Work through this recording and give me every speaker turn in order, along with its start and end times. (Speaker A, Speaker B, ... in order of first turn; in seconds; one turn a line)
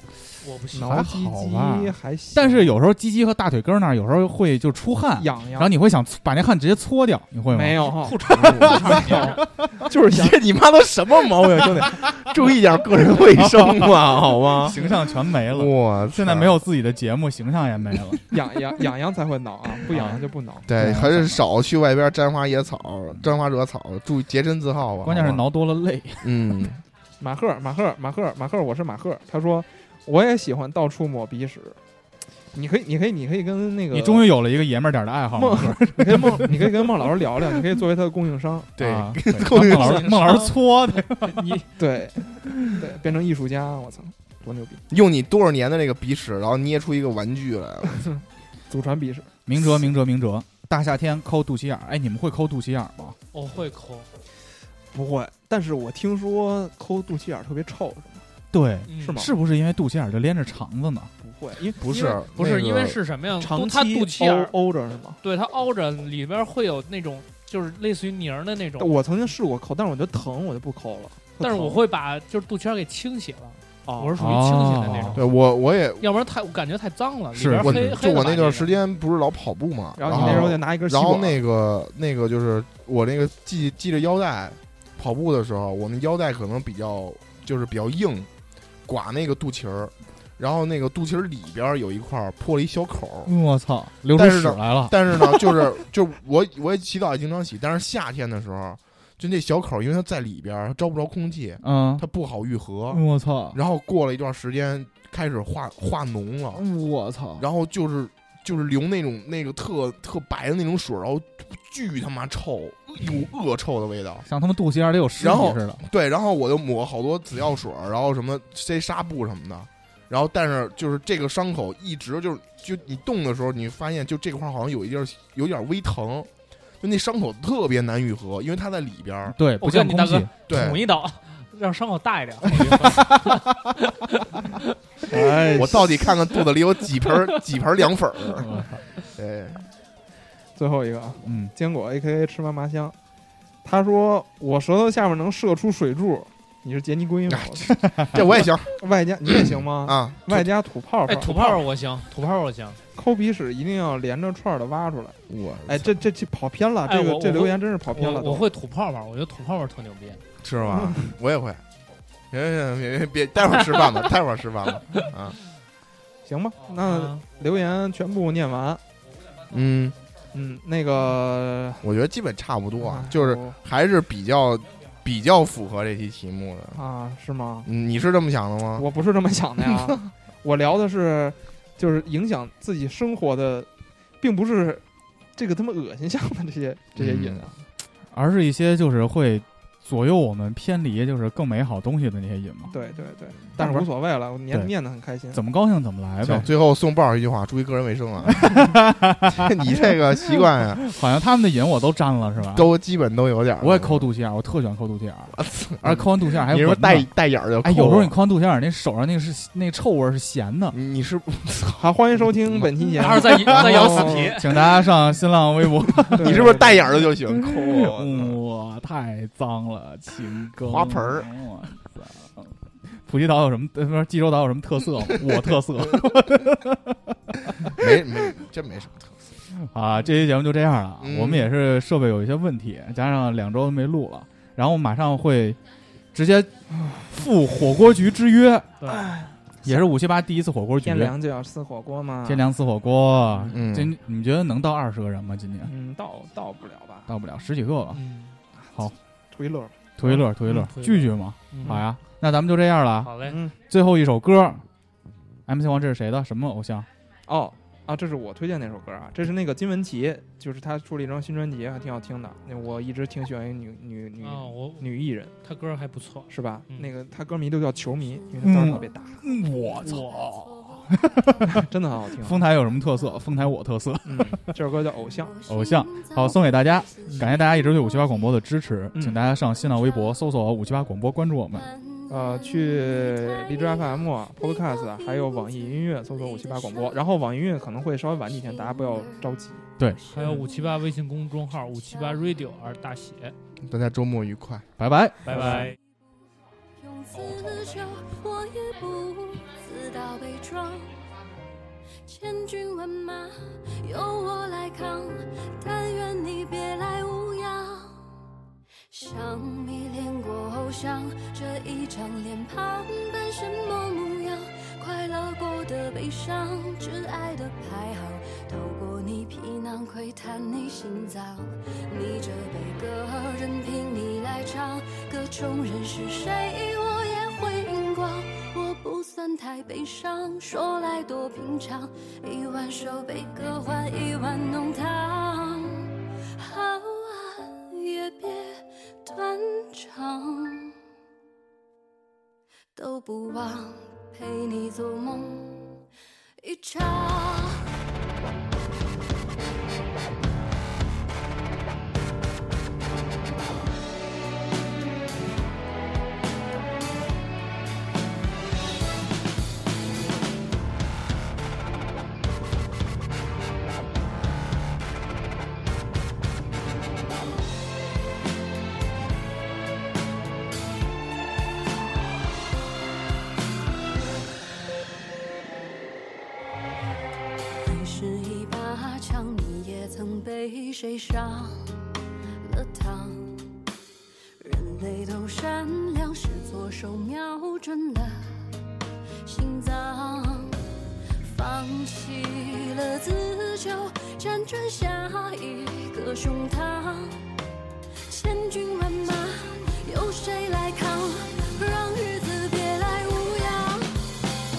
Speaker A: 0.4-1.0
Speaker B: 0.7-2.7
Speaker C: 0.8-9.4
Speaker B: 5.2-5.7
Speaker B: 7.5-10.4
Speaker D: 8.3-9.0
Speaker A: 9.0-9.3
Speaker D: 10.1-14.8
Speaker C: 13.4-13.8
Speaker C: 14.6-18.2
Speaker D: 15.5-16.6
Speaker B: 18.3-20.7
Speaker C: 19.9-21.4
Speaker D: 20.6-25.4
Speaker C: 25.1-26.3
Speaker D: 26.2-26.8
Speaker B: 27.2-31.8
Speaker B: 32.5-34.3
Speaker C: 33.9-36.9
Speaker B: 35.4-38.7
Speaker D: 38.8-40.3
Speaker C: 38.8-41.4
Speaker A: 39.7-40.5
Speaker B: 41.4-44.8
Speaker D: 44.9-48.1
Speaker B: 48.7-49.3
Speaker C: 49.5-53.1
Speaker A: 53.3-54.1
Speaker B: 54.9-58.2
Speaker C: 58.5-61.1
Speaker A: 58.9-59.1
Speaker B: 59.0-59.3
Speaker B: 61.2-61.9
Speaker D: 61.7-63.0
Speaker A: 61.9-64.5
Speaker B: 63.4-65.2
Speaker A: 65.2-68.9
Speaker B: 68.8-71.8
Speaker A: 71.4-75.2
Speaker B: 73.8-74.2
Speaker C: 74.2-75.2
Speaker D: 75.1-76.1
Speaker A: 76.0-78.7
Speaker C: 77.3-78.0
Speaker D: 77.6-88.3
Speaker B: 80.0-81.4
Speaker C: 80.1-80.5
Speaker D: 88.8-93.3
Speaker C: 93.2-95.0
Speaker D: 94.1-103.0
Speaker C: 101.6-102.0
Speaker C: 102.9-103.6
Speaker D: 103.5-106.6
Speaker C: 106.5-107.5
Speaker D: 107.4-114.2
Speaker C: 114.3-115.8
Speaker D: 115.2-126.3
Speaker D: 126.8-129.4
Speaker C: 129.3-130.3
Speaker A: 129.6-134.6
Speaker D: 130.5-130.9
Speaker C: 135.1-135.8
Speaker D: 135.5-138.6
Speaker C: 138.4-138.8
Speaker D: 139.1-139.7
Speaker B: 140.6-142.9
Speaker C: 141.2-141.5
Speaker B: 143.6-147.7
Speaker D: 147.3-150.5
Speaker B: 148.8-151.6
Speaker A: 151.1-152.8
Speaker B: 152.9-158.5
Speaker D: 155.3-156.0
Speaker A: 156.8-160.2
Speaker D: 160.4-161.6
Speaker D: 162.3-165.4
Speaker B: 166.2-168.8
Speaker A: 166.8-167.2
Speaker D: 169.5-169.9
Speaker B: 170.3-171.9
Speaker D: 171.8-176.8
Speaker B: 172.8-173.6
Speaker B: 176.7-177.7
Speaker D: 177.6-178.9
Speaker B: 178.8-183.7
Speaker B: 184.2-184.8
Speaker B: 185.3-187.6
Speaker D: 186.9-187.4
Speaker C: 188.1-192.7
Speaker B: 192.7-195.4
Speaker C: 193.6-193.9
Speaker C: 195.3-196.5
Speaker D: 196.2-198.8
Speaker C: 198.3-199.6
Speaker D: 199.3-200.8
Speaker C: 200.8-202.7
Speaker D: 202.5-204.1
Speaker C: 203.6-207.1
Speaker D: 205.3-208.1
Speaker C: 207.6-210.8
Speaker D: 210.7-211.9
Speaker B: 211.8-214.4
Speaker A: 213.0-214.4
Speaker C: 213.2-227.0
Speaker B: 216.1-217.1
Speaker D: 216.2-218.4
Speaker D: 220.6-221.3
Speaker C: 227.6-228.0
Speaker D: 227.7-229.1
Speaker C: 229.6-235.6
Speaker D: 231.0-231.5
Speaker C: 236.1-236.5
Speaker B: 236.8-237.1
Speaker C: 237.1-238.7
Speaker A: 238.8-239.1
Speaker B: 239.0-239.3
Speaker C: 239.6-241.1
Speaker B: 240.8-242.4
Speaker C: 242.2-245.7
Speaker D: 243.5-243.9
Speaker B: 245.6-247.1
Speaker C: 247.1-248.0
Speaker A: 247.9-248.4
Speaker B: 249.3-250.7
Speaker C: 250.0-253.1
Speaker A: 250.5-251.8
Speaker A: 253.0-253.4
Speaker B: 253.2-253.6
Speaker C: 253.7-254.6
Speaker C: 255.5-256.9
Speaker B: 257.3-265.3
Speaker A: 264.2-264.9
Speaker A: 265.4-266.9
Speaker B: 266.3-269.2
Speaker E: 268.4-271.4
Speaker C: 268.4-271.6
Speaker B: 271.5-272.5
Speaker C: 272.2-274.5
Speaker B: 274.1-275.3
Speaker E: 275.0-278.4
Speaker C: 275.4-281.7
Speaker E: 279.5-280.2
Speaker E: 281.6-287.2
Speaker B: 282.1-289.6
Speaker E: 288.3-289.4
Speaker E: 289.9-290.8
Speaker A: 290.1-293.3
Speaker E: 291.7-292.5
Speaker D: 293.6-294.7
Speaker C: 294.8-295.7
Speaker A: 295.2-295.8
Speaker E: 296.8-301.0
Speaker E: 302.1-308.0
Speaker E: 308.9-340.7
Speaker E: 342.8-345.8
Speaker E: 346.4-347.6
Speaker E: 377.6-381.6
Speaker E: 382.4-383.6
Speaker E: 384.4-388.4
Speaker E: 389.2-390.6
Speaker E: 391.2-397.2
Speaker E: 398.1-403.9